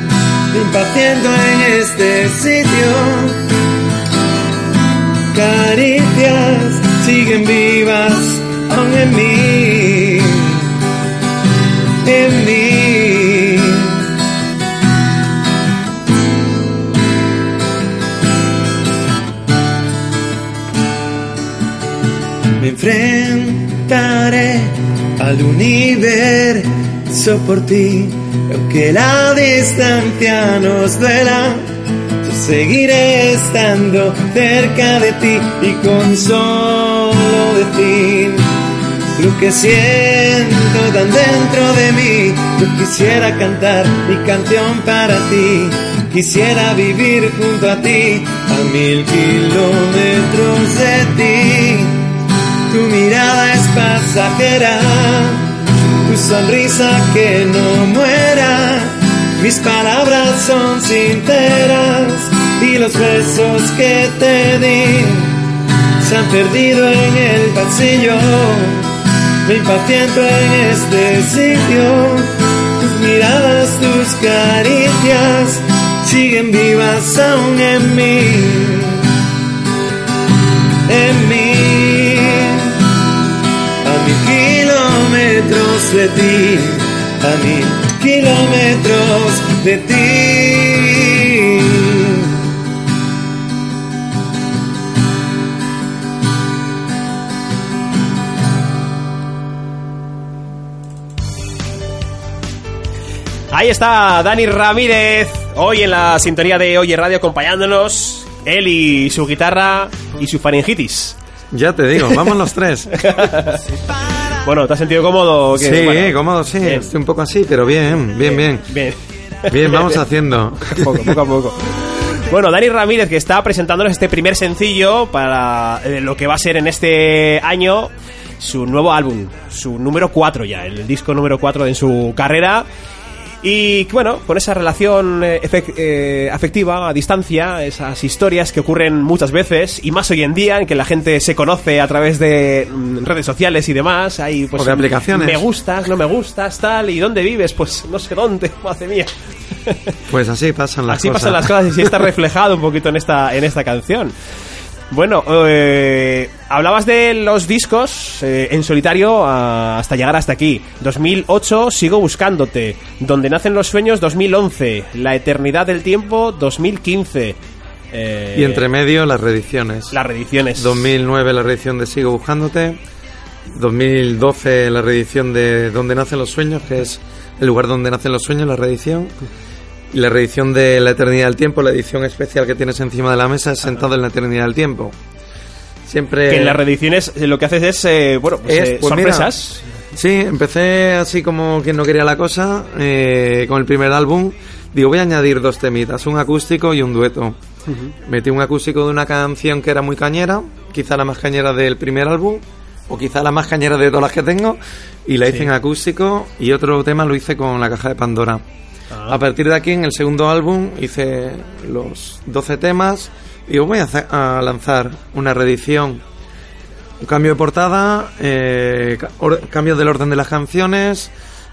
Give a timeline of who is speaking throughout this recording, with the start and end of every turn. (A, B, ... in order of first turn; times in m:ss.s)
0:00.5-0:03.0 A
0:00.9-0:01.5 B
0:02.8-0:03.4 B
0:05.3-0:10.3 A
0:07.0-0:09.6 B
0:12.0-0:13.9 A
0:22.6-0:31.6 A
0:32.2-0:38.4 A
0:39.2-0:52.0 A
0:52.7-0:55.4 A
0:56.0-1:05.3 A
1:06.0-1:08.9 A
1:09.4-1:19.0 A
1:20.9-1:22.7 A
1:23.8-1:32.2 A
1:43.5-1:51.2 C
1:51.5-1:53.1 B
1:52.0-1:52.3 C
1:52.9-1:53.6 C
1:53.7-1:54.4 A
1:54.4-1:56.9 C
1:55.6-1:58.7 B
1:58.2-2:00.0 C
1:59.5-2:01.2 B
2:00.6-2:12.7 C
2:13.4-2:29.1 C
2:24.6-2:25.4 B
2:29.6-2:29.9 C
2:30.1-2:31.9 B
2:30.9-2:34.1 C
2:34.9-2:47.4 C
2:47.9-2:48.7 C
2:48.4-2:50.0 B
2:49.9-2:50.9 C
2:50.6-2:52.8 B
2:53.5-2:59.1 B
2:59.9-3:05.0 B
3:05.9-3:06.6 B
3:06.3-3:09.7 C
3:08.4-3:09.3 B
3:09.9-3:17.4 B
3:17.7-3:17.9 C
3:18.0-3:28.4 B
3:28.9-3:29.2 C
3:29.1-3:36.0 B
3:37.0-3:41.1 B